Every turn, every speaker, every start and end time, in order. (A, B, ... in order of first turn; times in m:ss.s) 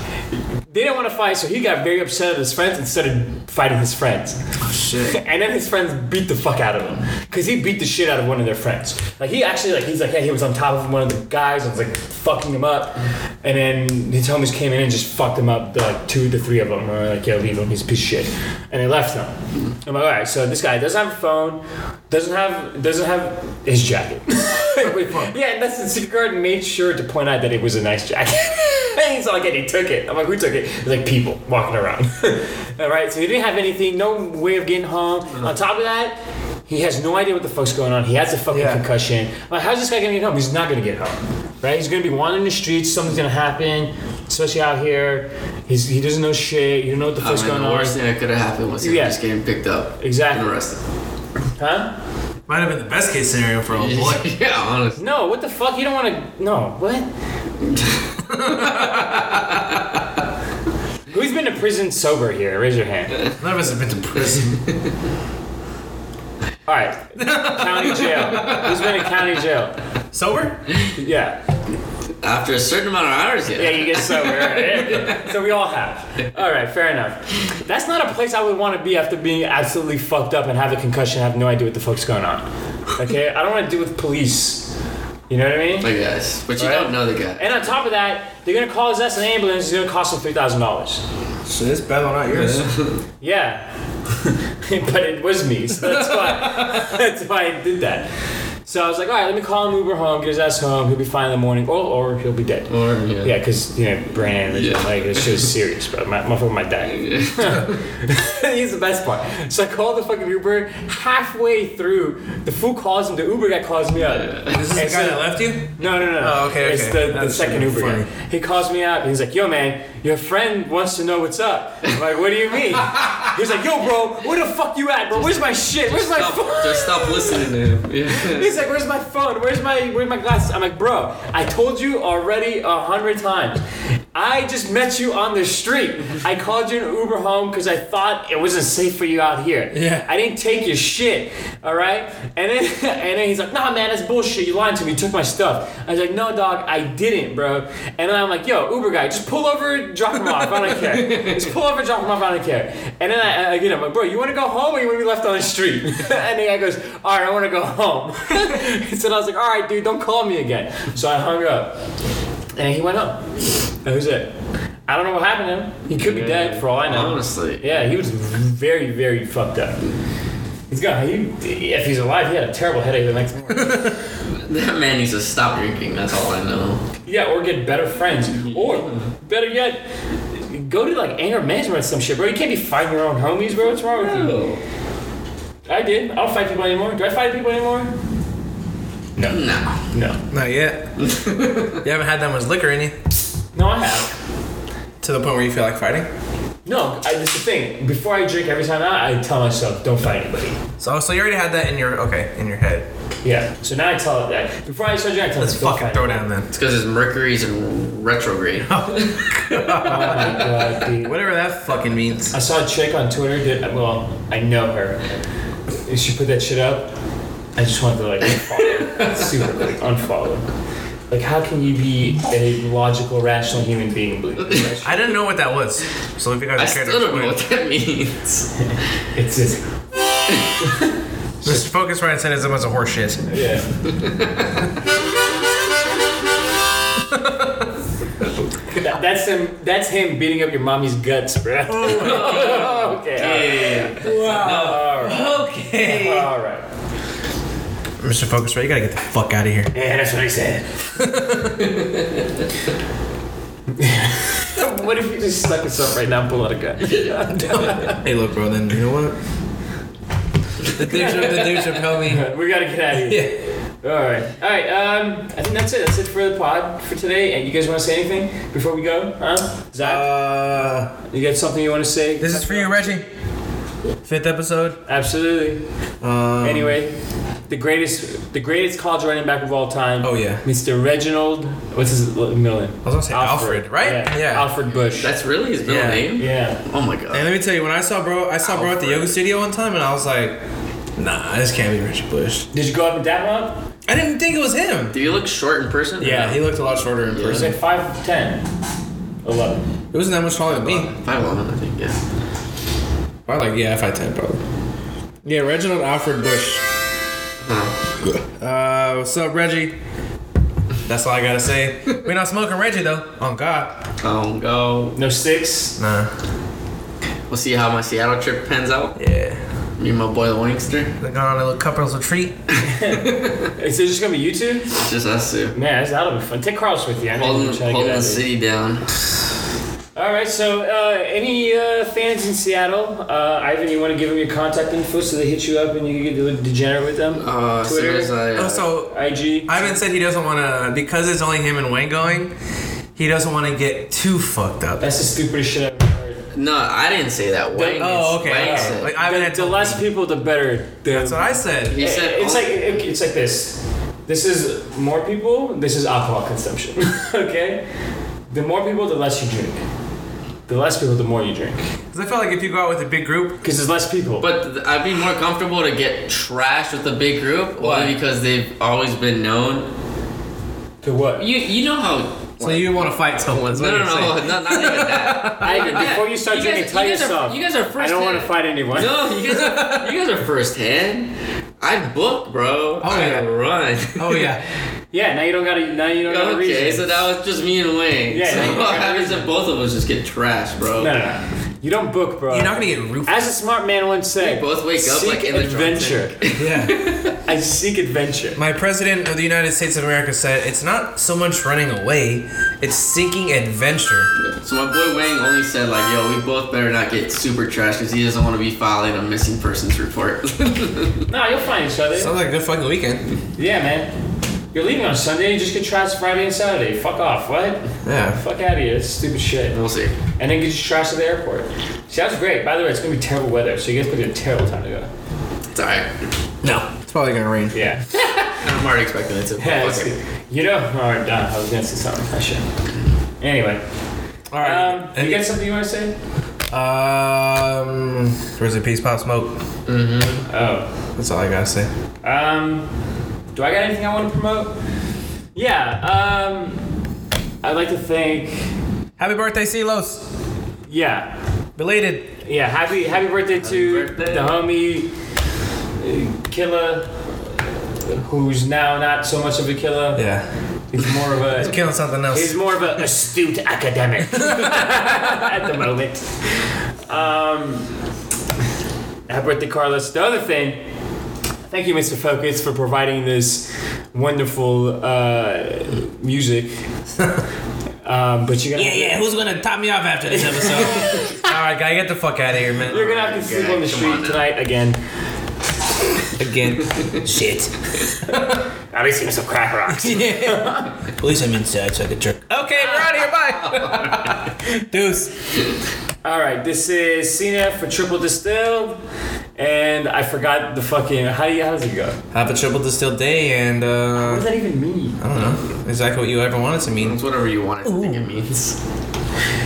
0:00.7-0:04.4 A
0:04.6-0:05.2 B
0:05.0-0:48.0 A
0:24.7-0:25.4 B
0:38.5-0:38.8 B
0:47.2-0:50.8 C
0:48.8-0:49.2 A
0:50.0-0:50.5 A
0:51.6-0:51.9 A
0:52.5-0:54.3 B
0:53.8-0:55.0 C
0:55.0-0:57.1 A
0:57.7-0:59.6 C
0:58.2-0:59.9 B
1:01.1-1:03.2 A
1:03.4-1:04.6 B
1:06.7-1:09.8 A
1:07.2-1:09.1 B
1:10.1-1:10.6 B
1:10.9-1:11.4 A
1:12.2-1:15.3 C
1:13.5-1:24.7 A
1:25.3-1:25.9 A
1:25.8-1:27.6 C
1:26.6-1:26.9 B
1:27.4-1:31.0 A
1:31.5-1:32.7 B
1:32.3-1:33.0 C
1:33.2-1:33.7 A
1:34.2-1:38.1 A
1:36.2-1:36.8 B
1:38.6-1:42.7 A
1:42.7-1:43.3 C
1:43.2-2:07.5 A
1:44.5-1:45.4 C
1:47.0-1:47.7 C
1:54.1-1:54.6 C
1:54.5-1:58.1 B
2:05.9-2:08.6 C
2:08.1-2:13.6 A
2:14.1-2:41.8 A
2:19.7-2:20.1 B
2:30.8-2:31.4 C
2:42.6-2:44.3 A
2:44.9-2:49.8 A
2:45.9-2:47.7 C
2:50.7-2:54.0 A
2:53.6-2:53.9 B
2:54.3-2:56.8 C
2:57.1-3:04.4 A
2:58.4-2:59.0 C
3:03.8-3:04.6 C
3:05.7-3:07.9 A
3:09.2-3:10.2 A
3:09.3-3:09.8 C
3:10.3-3:11.0 B
3:11.0-3:11.8 C
3:11.7-3:13.0 B
3:13.6-3:14.1 A
3:15.0-3:16.1 B
3:16.6-3:20.6 A
3:20.8-3:22.9 B
3:23.2-3:26.3 A
3:25.4-3:26.5 B
3:26.5-3:30.5 C
3:28.7-3:32.4 B
3:29.8-3:31.2 A
3:32.3-3:35.0 A
3:35.8-3:36.9 A
3:37.6-3:40.5 A
3:38.5-3:39.3 C
3:41.1-3:45.0 A
3:44.8-3:47.4 B
3:46.6-3:48.5 C
3:48.6-3:49.7 A
3:50.6-3:50.9 A
3:51.4-3:53.4 B
3:53.3-3:53.7 A
3:53.9-3:54.6 C
3:57.0-3:57.7 B
3:58.7-4:06.6 A
4:01.7-4:02.7 B
4:01.8-4:04.8 C
4:04.0-4:06.3 B
4:08.0-4:09.7 B
4:09.7-4:10.7 A
4:11.0-4:11.8 B
4:11.8-4:12.1 C
4:13.7-4:18.0 A
4:17.5-4:19.2 B
4:20.7-4:22.3 B
4:20.9-4:30.1 A
4:22.9-4:23.4 B
4:29.8-4:30.9 B
4:31.1-4:33.0 A
4:32.2-4:33.1 B
4:34.0-4:34.8 B
4:34.9-4:35.6 A
4:36.0-4:36.8 B
4:36.4-4:37.0 A
4:37.5-4:45.1 A
4:40.0-4:40.4 B
4:42.8-4:44.5 B
4:44.9-4:47.3 C
4:45.6-4:46.1 B
4:46.2-4:46.6 A
4:47.1-4:50.4 B
4:48.4-4:49.2 C
4:51.0-4:52.5 B
4:52.5-4:53.7 A
4:53.9-4:55.0 B
4:54.9-4:56.4 C
4:56.0-4:57.6 B
4:57.1-4:57.5 C
4:57.3-4:58.4 A
4:59.2-4:59.6 A
4:59.9-5:00.9 B
5:00.5-5:02.0 C
5:03.3-5:04.4 B
5:05.2-5:06.7 B
5:07.4-5:07.8 C
5:08.4-5:09.8 B
5:10.8-5:13.9 B
5:14.0-5:15.0 C
5:15.0-5:15.8 A
5:15.8-5:16.2 B
5:17.3-5:19.0 C
5:19.0-5:19.4 B
5:19.8-5:20.9 C
5:21.0-5:22.4 B
5:22.6-5:24.8 A
5:22.9-5:23.3 C
5:24.7-5:25.6 C
5:25.5-5:28.2 A
5:27.2-5:28.9 C
5:30.0-5:38.1 A
5:37.2-5:38.7 C
5:38.4-5:42.3 B
5:38.9-5:39.7 A
5:43.0-5:44.9 B
5:44.8-5:46.3 A
5:46.3-5:48.9 C
5:47.5-5:57.6 A
5:47.8-5:49.9 B
5:50.9-5:51.8 B
5:51.7-5:52.6 C
5:58.3-5:59.6 A
6:00.5-6:01.6 A
6:01.9-6:03.4 B
6:03.4-6:04.3 A
6:04.2-6:09.7 C
6:07.6-6:08.0 B
6:10.8-6:11.3 A
6:11.2-6:24.3 C
6:12.4-6:15.9 B
6:15.4-6:19.0 A
6:19.1-6:20.0 B
6:22.8-6:23.3 B
6:24.0-6:24.4 B
6:24.9-6:27.0 A
6:26.1-6:30.9 C
6:28.1-6:29.3 A
6:30.8-6:36.2 A
6:32.3-6:33.3 B
6:34.2-6:37.2 C
6:36.4-6:37.0 B
6:37.2-6:38.4 A
6:38.4-6:44.1 B
6:44.2-6:51.0 C
6:51.1-6:52.1 A
6:52.0-6:53.0 B
6:53.4-6:53.9 A
6:54.5-6:59.6 A
6:57.8-6:58.2 B
6:59.5-7:00.0 C
7:00.2-7:04.9 A
7:05.5-7:05.9 C
7:06.4-7:07.6 B
7:07.5-7:08.5 A
7:08.3-7:09.9 C
7:09.4-7:12.4 A
7:13.2-7:13.6 A
7:14.3-7:15.3 B
7:14.4-7:16.0 A
7:16.5-7:19.4 B
7:19.7-7:20.2 C
7:20.3-7:20.7 A
7:21.0-7:21.7 B
7:22.0-7:22.7 A
7:23.3-7:24.6 A
7:25.4-7:26.7 A
7:27.4-7:28.5 A
7:29.0-7:30.0 B
7:30.7-7:31.1 A
7:31.6-7:32.2 B
7:32.2-7:34.9 A
7:33.4-7:34.4 C
7:35.8-7:36.9 A
7:37.8-7:40.1 A
7:40.0-7:40.3 B
7:40.7-7:41.6 A
7:41.4-7:42.4 B
7:42.1-7:47.7 A
7:44.2-7:44.6 B
7:49.1-7:50.6 A
7:51.5-7:56.6 A
7:57.0-7:57.2 B
7:57.8-7:59.0 A
7:58.6-8:02.8 B
8:00.1-8:01.2 A
8:02.7-8:04.8 A
8:02.7-8:04.2 C
8:06.1-8:08.4 B
8:08.7-8:10.8 A
8:09.7-8:15.1 B
8:12.6-8:12.9 A
8:13.4-8:14.2 C
8:16.0-8:18.8 A
8:19.4-8:22.0 A
8:22.1-8:24.3 B
8:24.0-8:25.0 A
8:25.0-8:27.0 B
8:26.8-8:28.6 C
8:27.6-8:28.0 B